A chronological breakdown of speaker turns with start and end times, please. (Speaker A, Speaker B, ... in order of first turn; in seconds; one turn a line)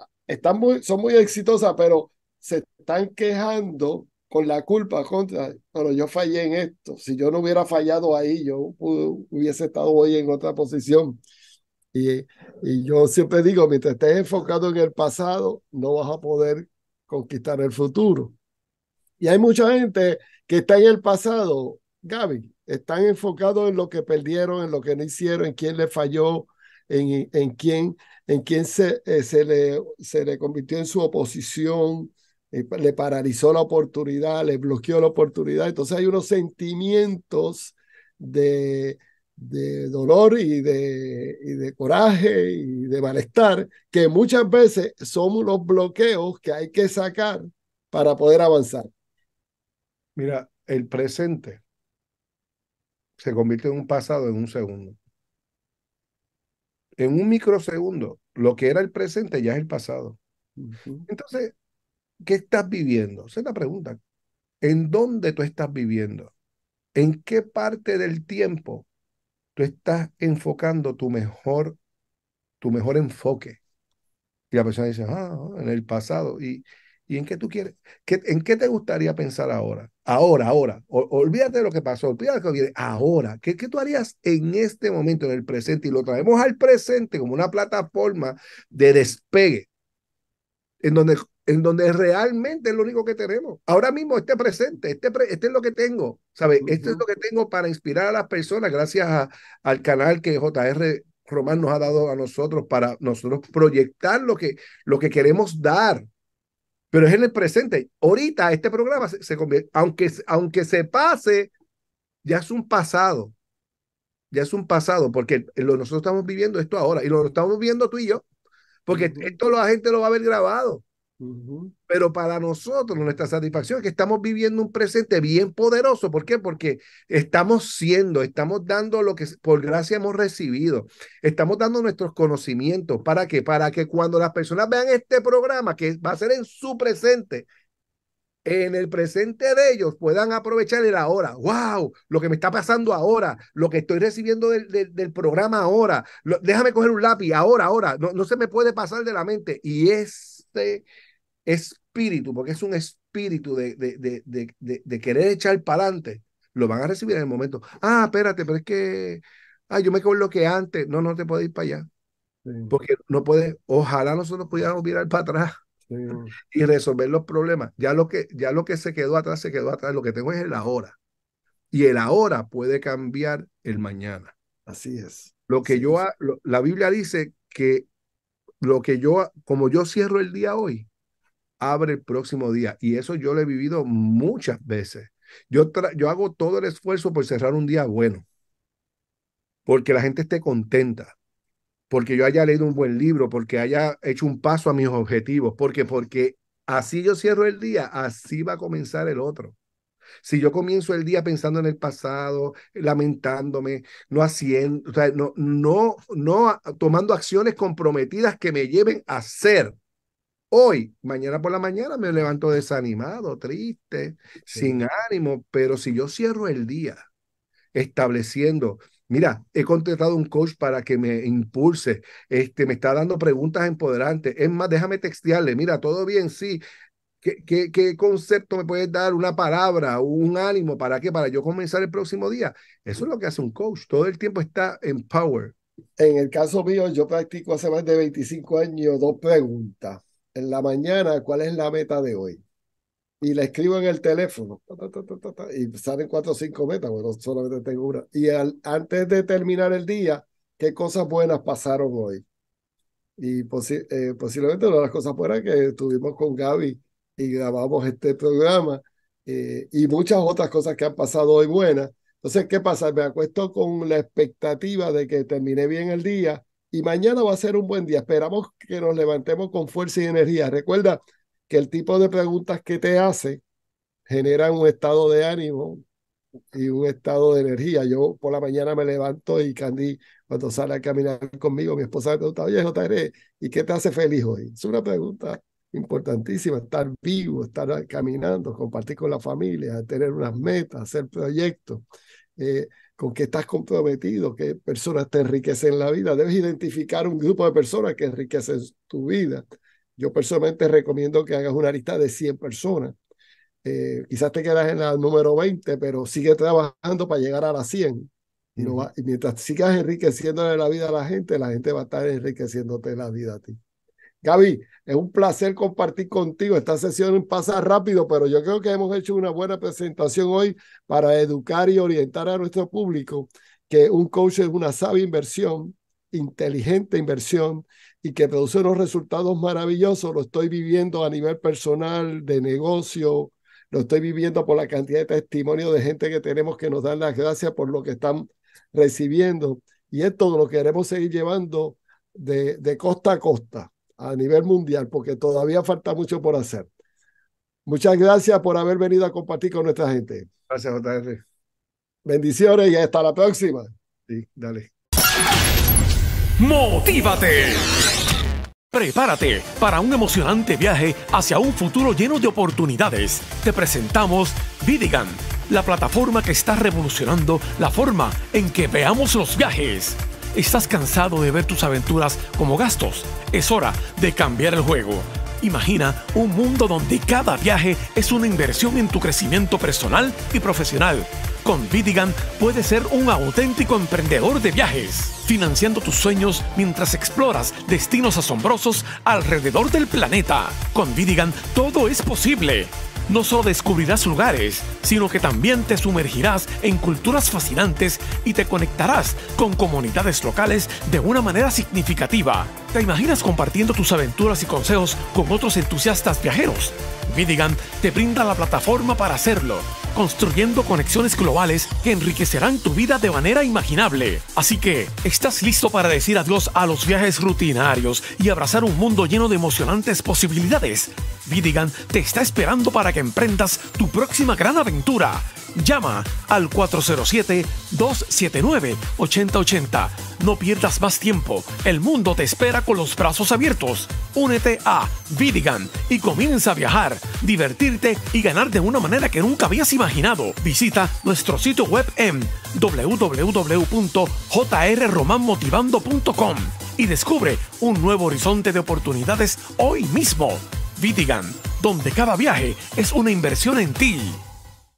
Speaker A: 0.3-11.2
Speaker A: 11.9-18.3
Speaker A: 19.2-48.9
Speaker B: 50.1-51.6
Speaker B: 53.2-55.0
Speaker B: 57.0-60.2
Speaker A: 60.6-61.0
Speaker B: 61.1-61.5
Speaker B: 62.2-64.0
Speaker B: 64.6-66.3
Speaker B: 66.9-68.9
Speaker B: 69.5-71.8
Speaker B: 72.6-73.6
Speaker B: 74.5-89.7
Speaker B: 90.8-106.1
Speaker B: 106.9-111.5
Speaker B: 112.2-113.3
Speaker B: 114.3-118.2
Speaker B: 118.8-120.8
Speaker A: 118.9-119.3
Speaker A: 121.2-121.7
Speaker B: 121.9-137.5
Speaker B: 138.4-150.8
Speaker B: 151.4-161.9
Speaker A: 162.4-162.7
Speaker B: 162.7-165.5
Speaker A: 165.9-166.3
Speaker B: 166.4-171.0
Speaker B: 171.7-174.3
Speaker A: 174.7-176.0
Speaker B: 175.5-177.9
Speaker B: 178.6-180.9
Speaker B: 181.6-188.2
Speaker B: 189.7-191.1
Speaker B: 191.9-199.6
Speaker B: 200.2-209.8
Speaker B: 210.5-217.0
Speaker A: 214.5-214.8
Speaker B: 217.7-226.6
Speaker B: 227.2-235.5
Speaker A: 236.0-242.4
Speaker A: 243.2-252.2
Speaker A: 253.2-273.4
Speaker A: 274.1-275.8
Speaker A: 276.5-291.8
Speaker A: 292.4-299.4
Speaker A: 300.0-302.9
Speaker A: 303.6-313.6
Speaker B: 308.6-308.9
Speaker A: 314.2-346.7
Speaker A: 347.6-350.3
Speaker B: 350.5-351.2
Speaker A: 352.0-353.7
Speaker B: 354.1-354.7
Speaker C: 356.4-357.8
Speaker C: 358.7-454.2